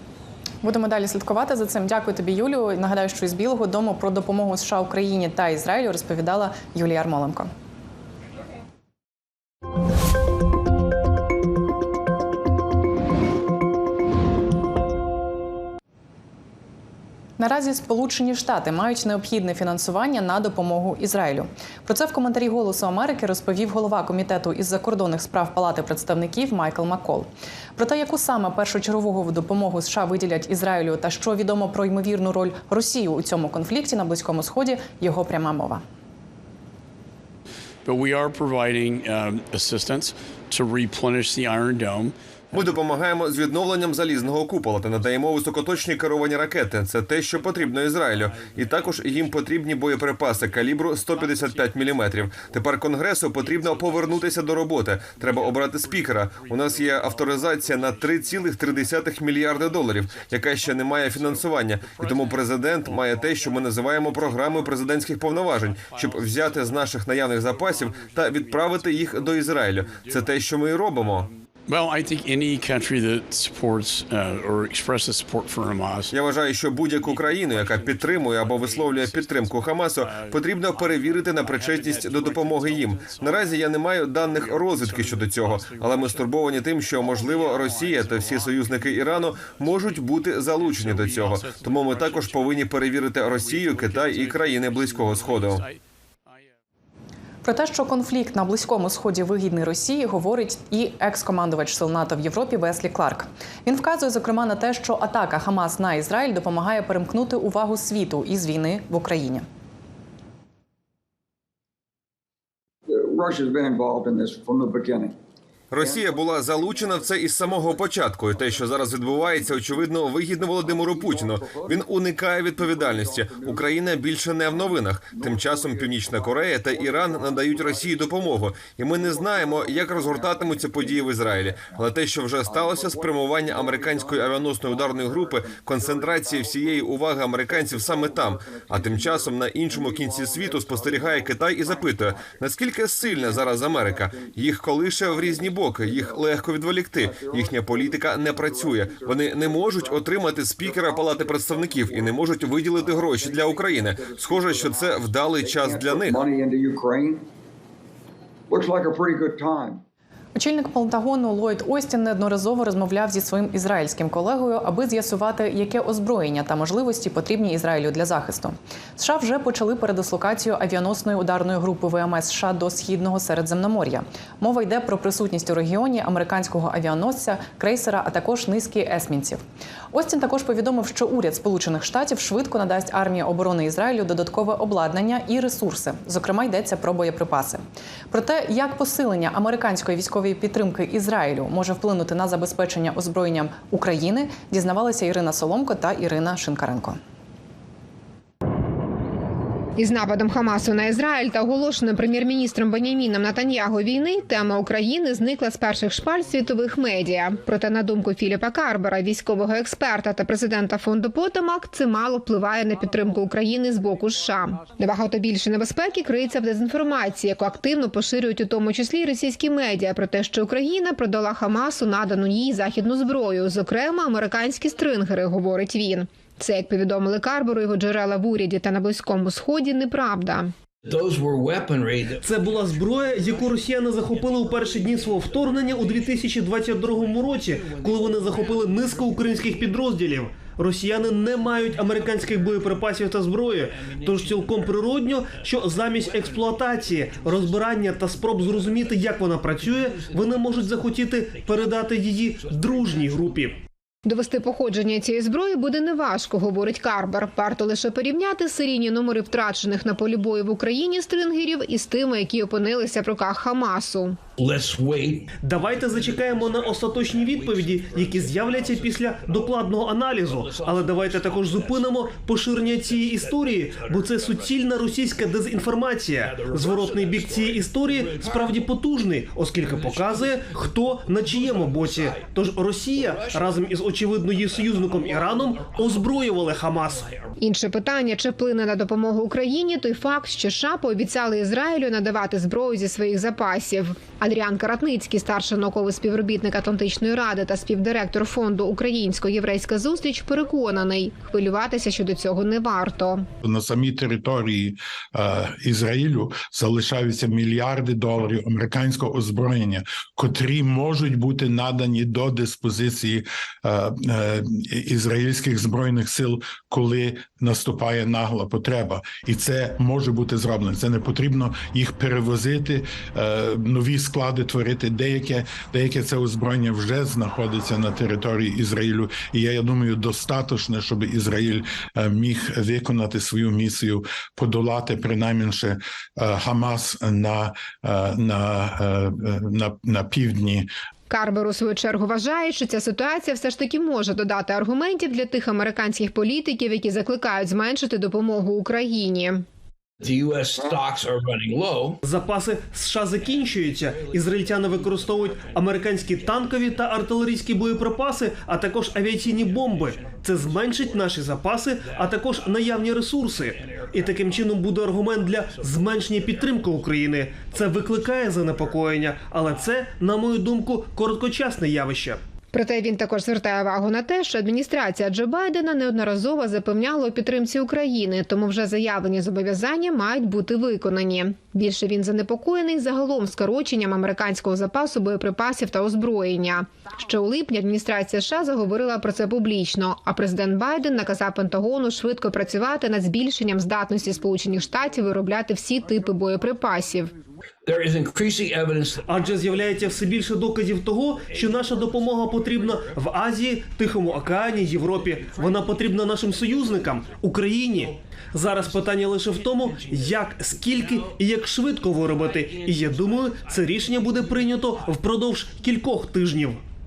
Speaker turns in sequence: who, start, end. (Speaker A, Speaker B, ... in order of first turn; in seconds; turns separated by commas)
Speaker A: 0.6-7.5, Speaker A: 17.4-35.8, Speaker B: 37.9-42.8, Speaker C: 42.5-71.3, Speaker B: 55.2-57.2, Speaker B: 57.9-58.5, Speaker B: 60.0-64.1, Speaker B: 65.3-66.9, Speaker B: 67.5-76.2, Speaker C: 76.1-95.7, Speaker B: 76.9-95.8, Speaker A: 97.4-109.5, Speaker D: 112.9-115.1, Speaker C: 115.7-156.2, Speaker D: 120.9-121.8, Speaker D: 122.8-123.6, Speaker D: 127.3-128.4, Speaker D: 129.4-130.9, Speaker D: 132.7-133.9, Speaker D: 137.7-139.1, Speaker D: 140.7-141.3, Speaker D: 147.0-149.7, Speaker D: 150.8-152.1, Speaker D: 153.3-154.9, Speaker D: 155.4-157.2, Speaker D: 158.5-159.8, Speaker A: 160.3-179.4, Speaker A: 179.9-197.0, Speaker E: 199.8-230.5, Speaker F: 230.8-232.3, Speaker G: 232.2-253.6, Speaker E: 254.0-264.2, Speaker F: 264.4-265.3, Speaker G: 265.4-287.1, Speaker F: 265.9-266.6, Speaker F: 267.2-269.5, Speaker F: 270.4-271.8, Speaker F: 273.2-274.0, Speaker F: 276.3-277.4, Speaker F: 277.9-278.5, Speaker F: 279.8-280.1, Speaker F: 281.3-282.2, Speaker F: 283.1-283.4, Speaker F: 284.9-285.1, Speaker E: 287.4-303.3, Speaker H: 303.4-340.7, Speaker E: 341.1-349.4, Speaker F: 350.0-352.0, Speaker G: 352.0-372.2, Speaker E: 372.5-397.1, Speaker F: 397.6-399.1, Speaker G: 399.0-416.6